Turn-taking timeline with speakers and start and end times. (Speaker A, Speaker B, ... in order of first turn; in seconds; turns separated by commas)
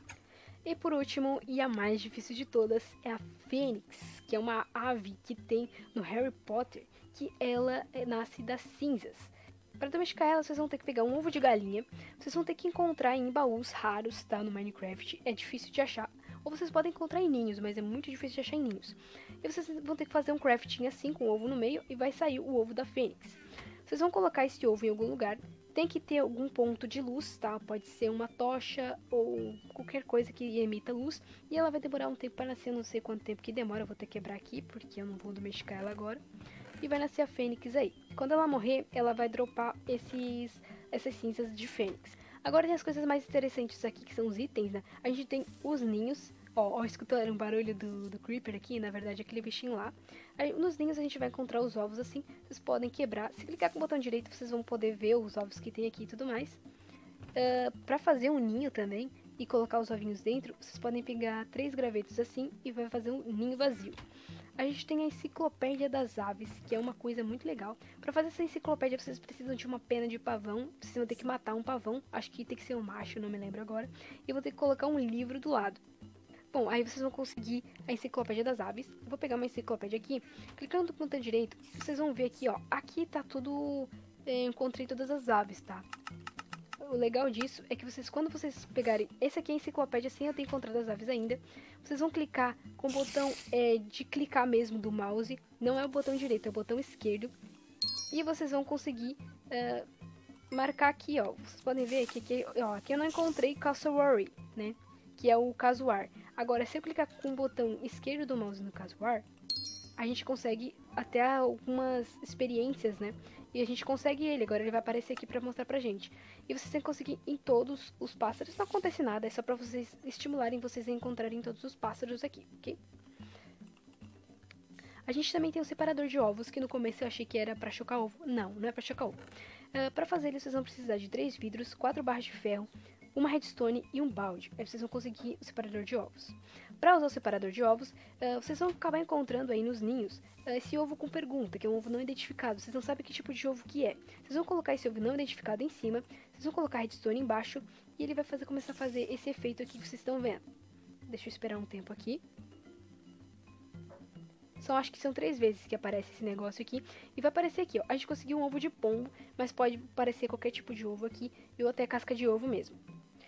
Speaker A: 0.6-36.2, Speaker A: 36.8-56.6, Speaker A: 57.3-64.0, Speaker A: 64.6-75.8, Speaker A: 76.5-85.9, Speaker A: 86.8-97.3, Speaker A: 98.1-99.9, Speaker A: 100.5-109.2, Speaker A: 110.0-122.8, Speaker A: 125.0-129.2, Speaker A: 129.7-150.4, Speaker A: 151.1-152.2, Speaker A: 154.6-162.8